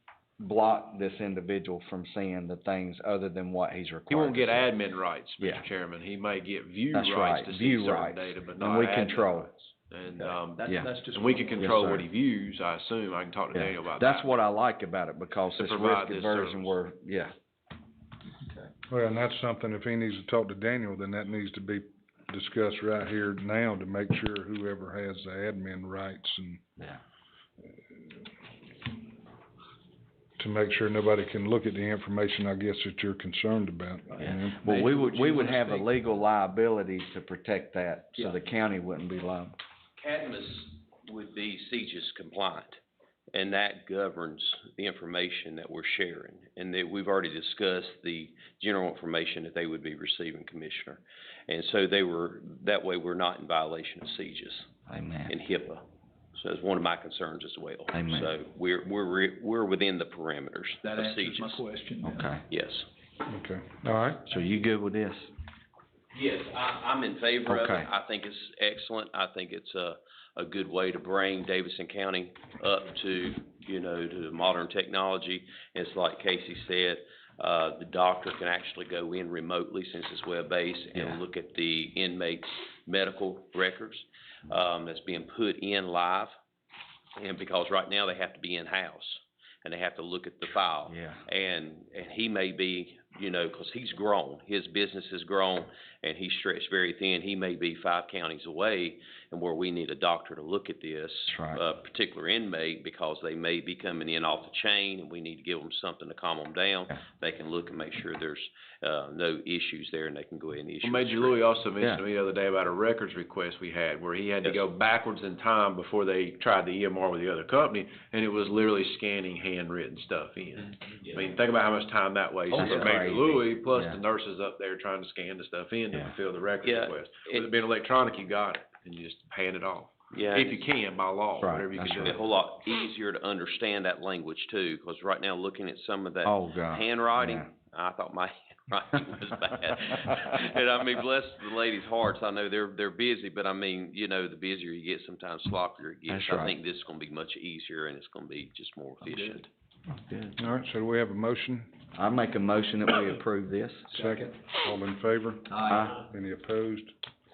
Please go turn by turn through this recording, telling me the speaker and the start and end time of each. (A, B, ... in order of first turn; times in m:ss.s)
0:00.4-0:04.7 A
0:04.1-0:14.4 B
0:05.4-0:05.7 A
0:06.9-0:09.5 A
0:10.6-0:11.7 C
0:10.7-0:11.0 A
0:11.6-0:12.0 A
0:13.5-0:17.3 A
0:15.5-0:16.8 B
0:18.9-0:26.7 D
0:30.4-0:34.8 D
0:34.2-0:39.6 A
0:34.9-0:35.8 B
0:40.0-0:42.8 E
0:43.3-0:54.7 E
0:54.9-0:55.4 A
0:55.3-1:01.6 E
0:57.9-0:58.3 A
1:01.0-1:02.2 C
1:02.0-1:02.4 A
1:02.5-1:02.9 E
1:03.3-1:04.2 D
1:04.2-1:05.3 A
1:06.1-1:26.3 E
1:07.5-1:07.9 A
1:21.0-1:21.2 A
1:27.2-1:51.4 E
1:30.9-1:31.2 A
1:41.3-1:41.6 A
1:50.8-2:12.2 B
2:02.5-2:02.9 E
2:02.6-2:04.0 A
2:06.6-2:07.5 E
2:10.1-2:10.6 E
2:11.4-2:12.2 A
2:12.0-2:29.5 E
2:16.2-2:17.5 A
2:26.1-2:26.6 A
2:30.4-2:31.8 D
2:31.9-2:33.9 A
2:33.9-2:37.0 D
2:35.7-2:36.0 A